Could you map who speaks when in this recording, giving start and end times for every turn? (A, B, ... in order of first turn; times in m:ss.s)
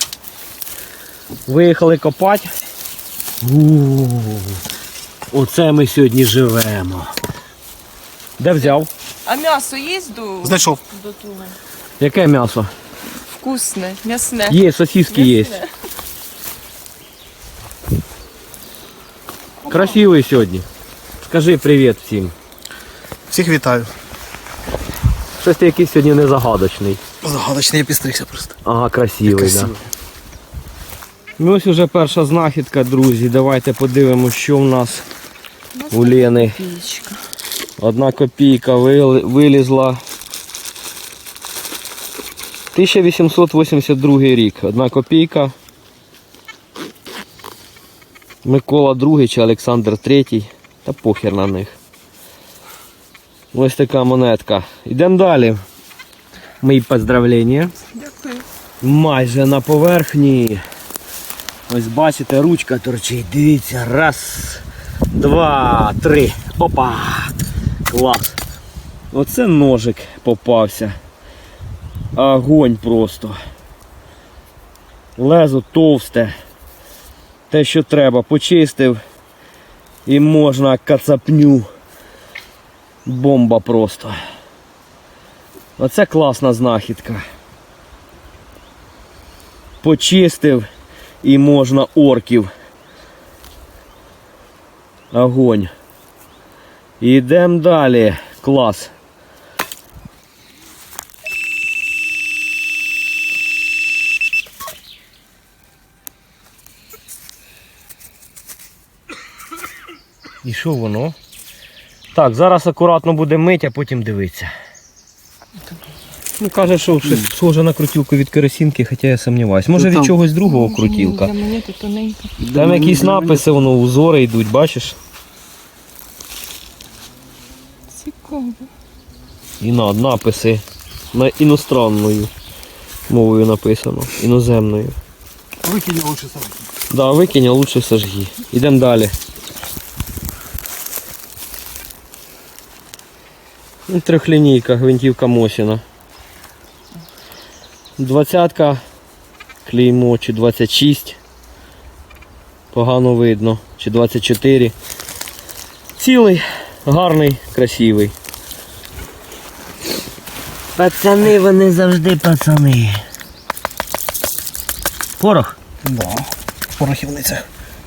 0:01.4-0:02.5 A
0:03.4-0:04.6 A
0:05.3-0:07.1 A
0:08.4-0:08.9 A
0:09.2-0:11.6 B
0:10.4-0:10.8 C
0:12.0-0:12.7 A
0:13.2-0:15.7 B
0:14.5-0:15.6 A
0:19.7-0:20.6 A
0:21.2-0:22.3 A
0:23.3-0:23.9 C
0:25.4-0:27.0 A
0:27.2-0:28.6 C
0:28.6-0:29.7 A
0:29.3-0:29.8 C
0:31.4-0:35.0 A
0:35.7-0:37.2 B
0:35.9-0:36.6 A
0:37.8-0:40.0 A
0:42.7-0:45.5 A
0:48.4-0:51.8 A
0:53.5-0:55.6 A
0:56.6-0:57.7 A
0:57.9-0:58.4 B
0:58.8-1:00.6 A
1:01.7-1:08.4 A
1:09.1-1:10.9 A
1:12.1-1:13.4 A
1:15.2-1:16.3 A
1:17.5-1:19.0 A
1:20.0-1:21.7 A
1:23.0-1:24.1 A
1:25.8-1:27.2 A
1:29.8-1:30.6 A
1:31.2-1:32.5 A
1:35.1-1:35.7 A
1:37.0-1:38.9 A
1:50.4-1:51.1 A
1:52.1-1:54.5 A
1:56.4-2:01.3 A
1:59.7-2:00.1 C
2:00.4-2:02.3 B
2:02.4-2:03.5 C
2:02.5-2:05.0 A
2:07.9-2:08.7 B
2:09.6-2:12.3 A
2:13.1-2:15.0 A
2:15.6-2:16.6 C
2:16.9-2:19.1 A
2:23.9-2:25.8 A
2:28.0-2:28.8 A
2:29.6-2:31.2 A
2:32.7-2:34.7 A
2:36.0-2:38.1 A
2:40.8-2:43.0 A
2:45.2-2:45.6 A
2:45.8-2:47.4 C